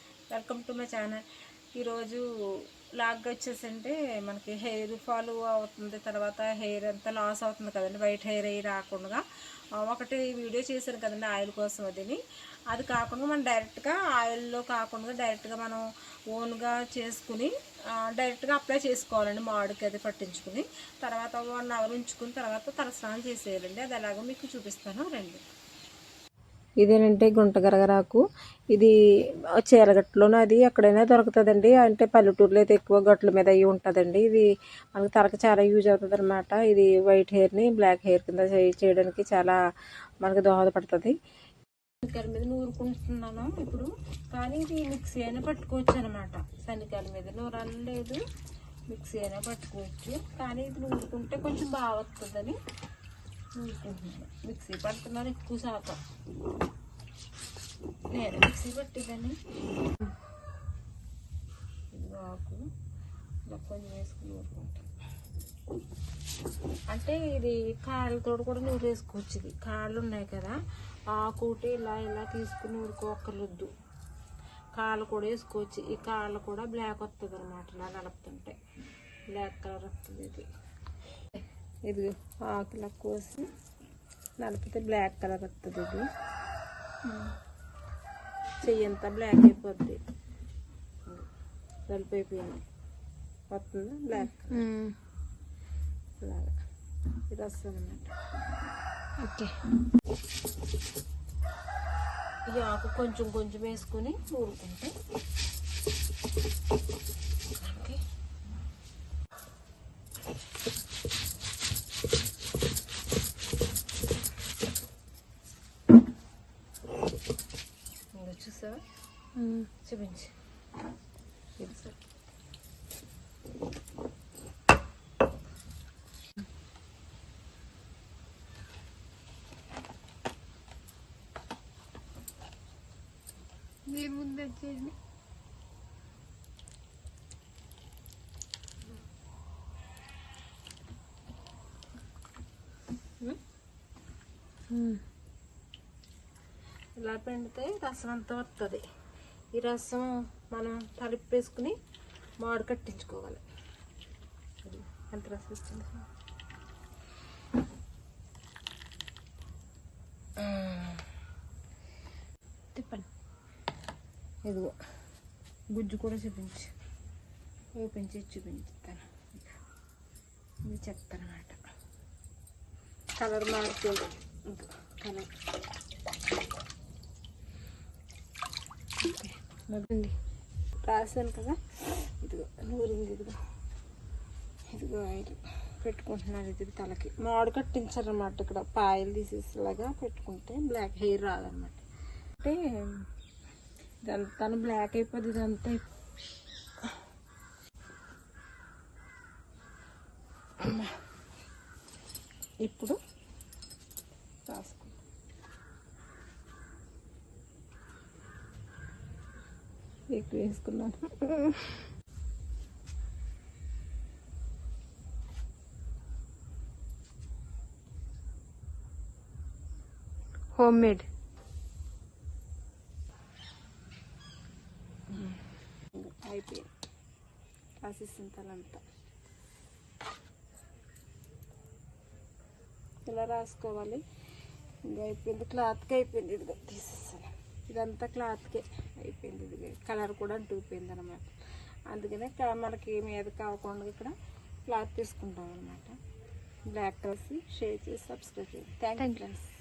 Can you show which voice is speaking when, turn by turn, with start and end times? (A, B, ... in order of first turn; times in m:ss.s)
0:00.3-0:01.2 A
0:01.8-0:09.2 A
0:09.8-0:25.4 A
0:26.8-0:28.2 A
0:29.6-0:39.6 A
0:40.2-0:41.2 A
0:42.0-0:48.2 A
0:48.9-0:52.6 A
0:53.6-0:56.0 A
0:58.1-0:59.4 A
1:01.9-1:02.6 A
1:03.5-1:04.8 A
1:06.9-1:10.6 A
1:11.1-1:13.7 A
1:14.8-1:18.6 A
1:19.3-1:20.5 A
1:21.9-1:23.5 A
1:24.4-1:26.1 A
1:28.6-1:30.0 A
1:31.9-1:32.6 A
1:33.5-1:34.6 A
1:34.5-1:34.9 B
1:36.2-1:36.5 A
1:37.3-1:38.1 A
1:39.2-1:39.6 B
1:42.5-1:44.9 A
1:47.6-1:48.0 A
1:58.1-1:58.8 A
1:59.4-1:59.7 B
1:59.8-2:00.3 A
2:01.6-2:02.0 A
2:13.9-2:14.9 B
2:24.7-2:25.0 B
2:27.0-2:28.8 A
2:29.5-2:31.8 A
2:32.4-2:33.4 A
2:34.6-2:36.1 A
2:40.4-2:41.0 A
2:42.7-2:43.0 B
2:44.4-2:44.7 A
2:45.7-2:46.7 A
2:47.8-2:49.1 A
2:50.6-2:51.6 A
2:53.2-2:55.3 A
2:59.0-3:00.1 B
3:00.8-3:03.4 A
3:04.7-3:11.8 A
3:12.4-3:13.0 A
3:14.0-3:15.8 A
3:20.6-3:20.9 A
3:22.6-3:23.0 A
3:24.4-3:25.0 A
3:30.1-3:31.5 A
3:40.5-3:41.1 B
3:45.9-3:46.7 A
3:47.8-3:48.8 A
3:53.0-3:54.0 A
3:54.8-4:04.1 A
4:04.7-4:06.0 A
4:06.7-4:09.5 A